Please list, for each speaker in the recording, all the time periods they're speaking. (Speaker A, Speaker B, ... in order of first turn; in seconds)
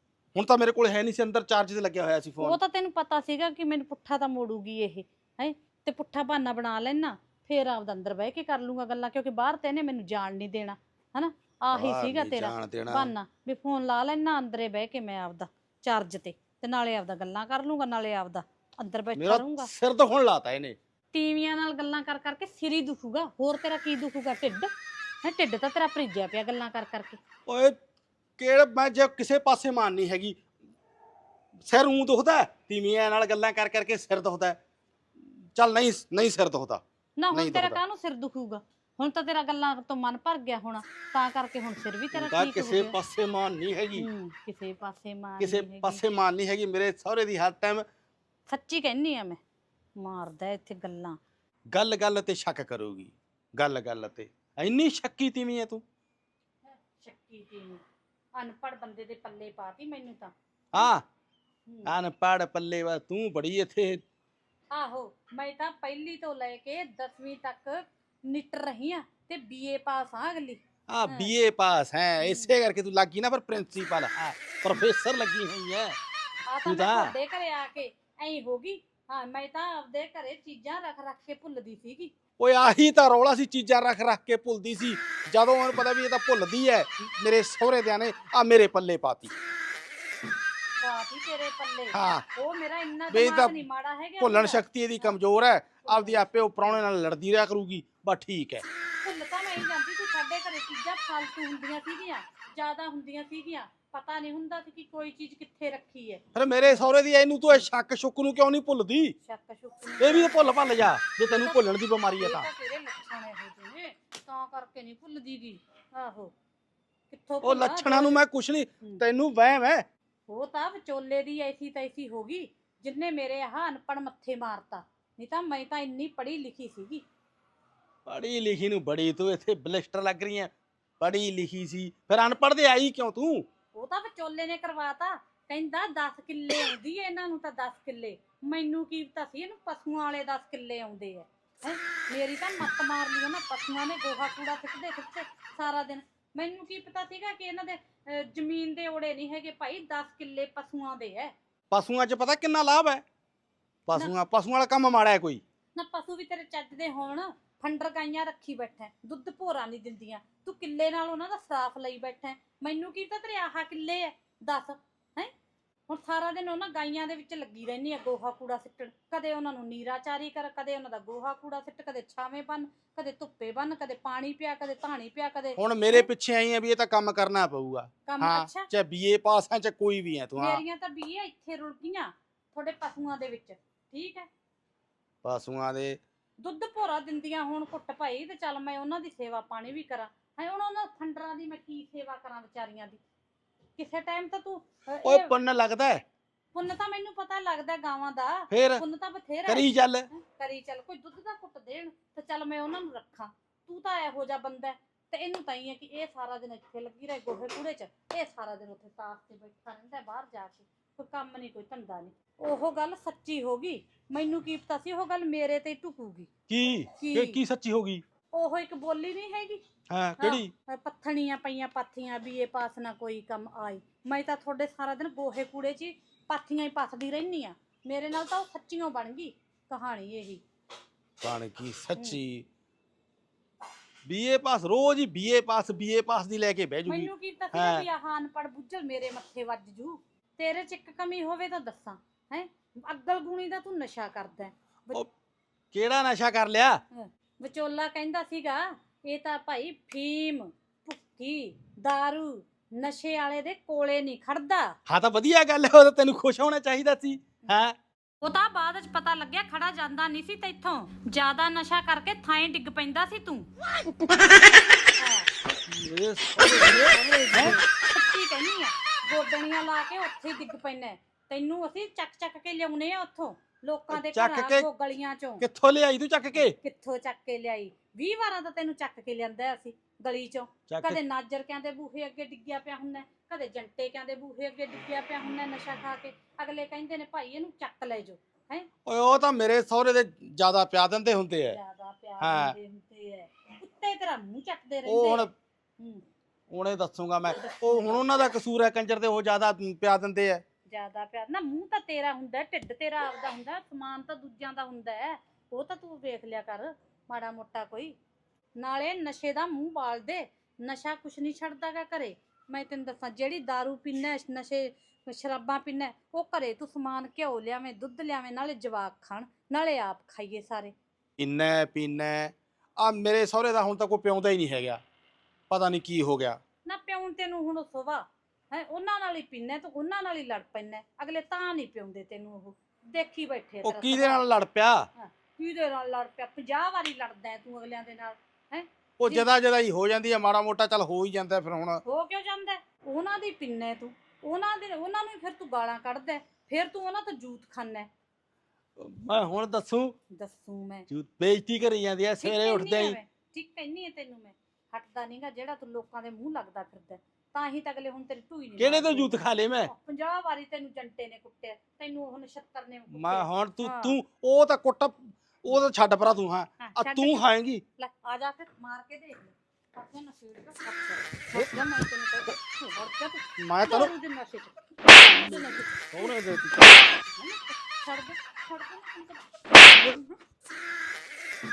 Speaker A: 0.3-2.6, 11.7-13.1, 19.2-20.8, 27.5-27.8, 28.4-30.4, 31.7-34.6, 35.5-37.8, 42.1-44.1, 45.4-47.9, 51.7-55.8, 60.7-61.0, 61.9-64.0, 70.9-76.0, 76.7-77.1, 82.4-89.3, 91.9-92.2, 93.1-93.6, 94.2-98.6, 106.3-109.2, 110.0-112.5, 117.4-119.8, 128.1-133.5, 151.7-153.0, 153.9-155.4, 175.6-180.6, 185.2-186.0, 195.0-196.0, 198.5-198.8, 199.5-200.1, 216.5-218.0, 219.9-220.5, 231.2-232.5, 234.1-237.9, 245.7-246.8, 254.9-257.8, 265.7-267.6, 273.9-274.7, 275.4-276.6, 280.7-281.0, 288.9-291.6, 292.2-292.6, 294.9-295.3, 296.5-300.4, 321.2-324.8, 325.5-326.4, 333.6-334.9, 339.0-341.8, 348.8-349.9, 350.9-353.0, 358.6-359.7, 362.9-367.6, 373.4-373.9, 375.9-376.8
Speaker B: 2.4-19.7, 21.1-24.7, 25.2-27.2, 37.2-42.9, 44.0-46.0, 48.5-49.4, 50.0-51.2, 56.7-57.8, 58.4-60.9, 64.7-71.3, 72.2-72.5, 76.5-82.1, 90.8-95.2, 95.9-96.8, 99.0-106.9, 109.2-110.6, 111.3-111.6, 112.2-116.3, 117.1-118.2, 120.3-127.0, 133.7-151.3, 155.8-165.3, 165.9-176.1, 178.1-178.7, 180.4-184.3, 186.4-193.0, 193.8-195.3, 196.5-216.3, 217.0-217.4, 218.3-219.6, 220.2-230.4, 236.9-245.0, 246.9-254.8, 258.2-263.5, 265.0-265.3, 266.4-275.4, 276.6-288.7, 291.5-295.3, 297.3-298.1, 300.7-307.9, 308.6-320.7, 326.6-334.2, 335.0-339.3, 341.9-347.9, 350.1-350.9, 352.2-364.0, 366.6-380.1